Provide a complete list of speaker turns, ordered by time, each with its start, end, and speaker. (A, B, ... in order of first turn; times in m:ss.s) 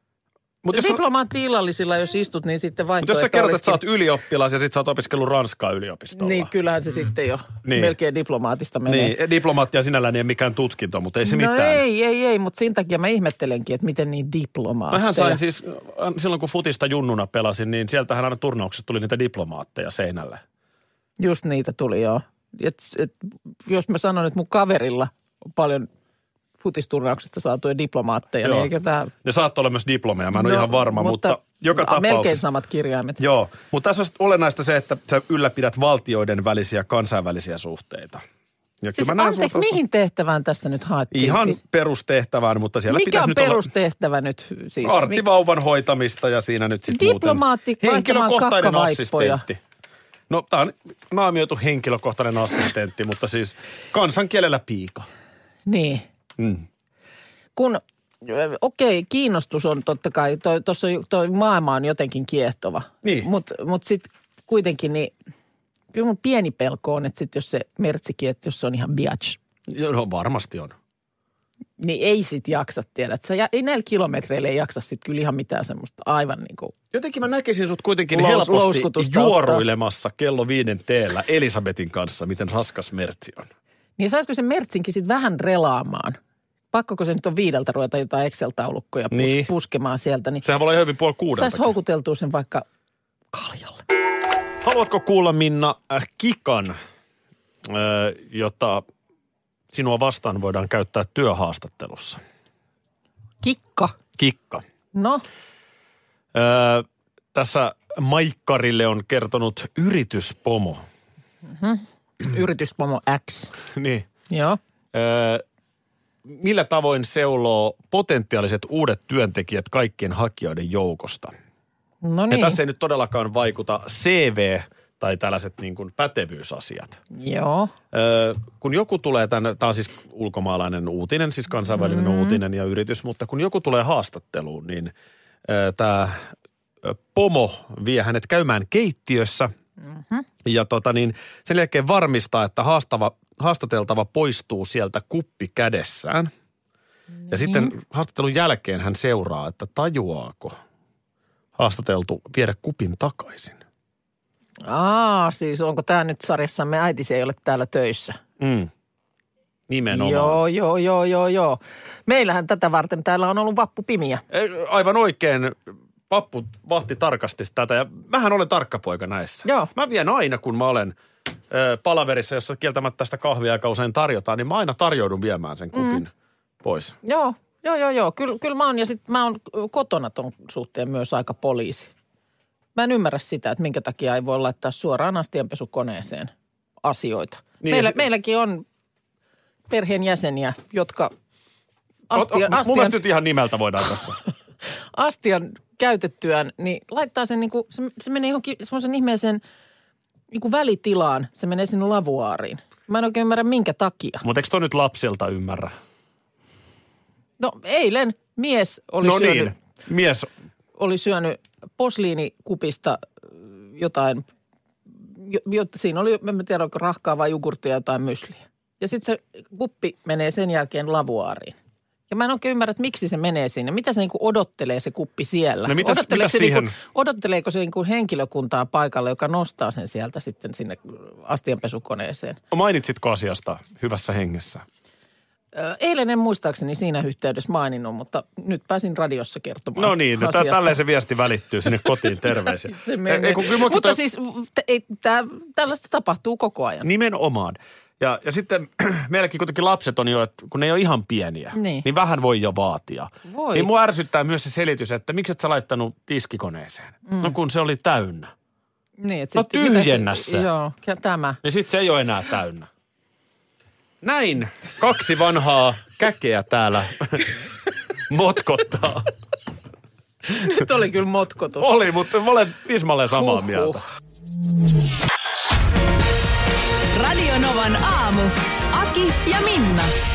0:00.6-0:01.0 A
0:00.7-0:03.8 B
0:03.0-0:06.5 A
0:06.1-0:09.1 B
0:07.6-0:07.9 A
0:08.9-0:11.8 A
0:11.2-0:15.4 B
0:14.9-0:20.4 A
0:21.2-0:25.9 B
0:26.6-0:29.1 B
0:28.4-0:28.7 A
0:29.2-0:32.4 A
0:30.3-0:33.2 B
0:33.2-0:38.2 A
0:38.8-0:39.8 A
0:39.0-0:41.6 B
0:41.1-0:43.7 A
0:42.9-0:45.2 B
0:44.8-0:49.6 A
0:46.9-0:49.4 B
0:50.3-0:55.1 A
0:55.7-0:56.0 B
0:56.4-0:56.6 A
0:57.6-1:05.1 B
1:03.0-1:03.3 A
1:05.9-1:09.4 B
1:09.7-1:10.8 A
1:11.8-1:16.7 B
1:16.9-1:23.5 A
1:18.1-1:19.6 B
1:24.0-1:26.2 B
1:26.7-1:30.4 B
1:29.1-1:29.5 A
1:30.4-1:31.7 A
1:31.3-1:32.6 B
1:33.3-1:33.8 B
1:34.6-1:36.8 A
1:37.6-1:38.8 A
1:39.7-1:42.2 A
1:43.4-1:44.0 B
1:44.2-1:44.6 A
1:44.9-1:45.2 B
1:46.3-1:50.8 A
1:51.4-1:53.5 B
1:53.7-1:54.1 A
1:54.3-1:54.6 B
1:54.9-1:55.4 A
1:56.2-2:01.3 A
2:02.0-2:02.6 B
2:02.3-2:07.0 A
2:07.1-2:07.7 B
2:07.9-2:14.9 A
2:11.7-2:12.4 B
2:15.4-2:16.3 A
2:16.8-2:19.5 A
2:19.9-2:20.2 B
2:20.4-2:26.3 A
2:27.3-2:27.7 B
2:27.3-2:30.6 A
2:31.6-2:33.6 A
2:34.6-2:38.2 B
2:38.4-2:38.7 A
2:39.7-2:40.4 A
2:39.9-2:44.2 B
2:44.3-2:51.0 A
2:49.4-2:49.7 B
2:51.5-2:56.1 A
2:55.7-2:56.0 B
2:56.6-2:57.0 A
2:57.0-3:01.9 B
3:02.7-3:06.3 B
3:06.8-3:08.6 B
3:07.6-3:08.0 A
3:09.7-3:11.1 B
3:12.1-3:13.0 B
3:12.1-3:14.2 A
3:14.9-3:19.4 B
3:20.3-3:24.2 B
3:24.2-3:25.7 A
3:27.4-3:29.5 B
3:29.0-3:30.3 A
3:30.8-3:34.2 B
3:35.1-3:41.6 B
3:42.1-3:52.4 B
3:45.6-3:46.8 A
3:52.5-3:54.6 A
3:55.5-4:00.8 B
3:59.8-4:04.0 A
4:02.7-4:06.8 B
4:06.8-4:18.3 A
4:11.5-4:11.9 B
4:13.2-4:13.7 B
4:17.1-4:17.3 B
4:19.0-4:21.4 B
4:19.4-4:20.5 A
4:21.4-4:22.7 A
4:24.0-4:27.3 A
4:28.1-4:29.1 A
4:30.4-4:31.7 B
4:31.6-4:33.8 A
4:33.4-4:33.7 B
4:36.9-4:39.9 C